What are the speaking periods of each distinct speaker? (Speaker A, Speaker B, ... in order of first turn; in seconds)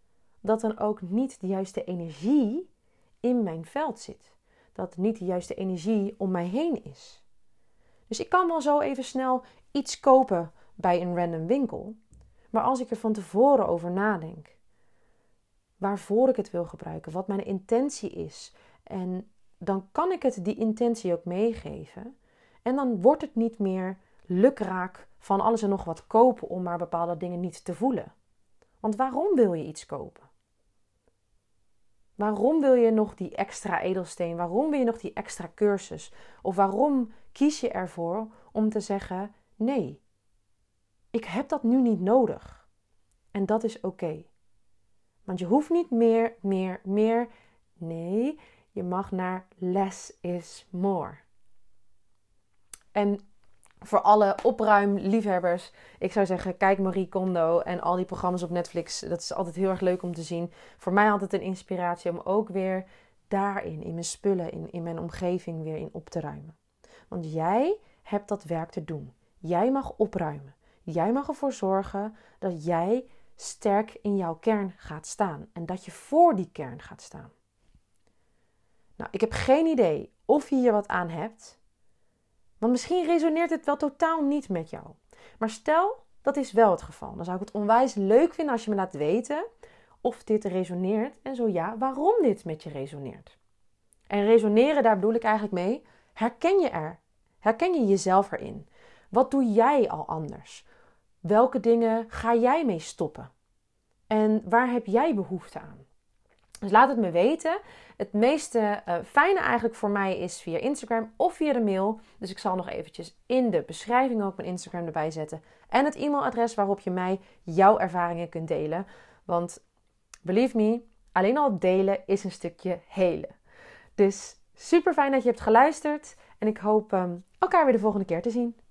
Speaker A: 0.4-2.7, 3.2-7.2, 8.1-12.0, 12.5-14.6, 15.8-22.1, 22.6-28.1, 28.8-30.3, 32.2-40.0, 41.1-42.7, 43.3-44.3, 45.3-47.3, 47.8-51.2, 52.9-53.2, 53.8-66.6, 67.1-77.3, 79.0-81.6, 82.6-89.5, 90.0-93.4, 94.1-100.7, 101.2-103.3, 104.1-105.8, 106.6-119.6, 120.2-123.3, 124.0-128.6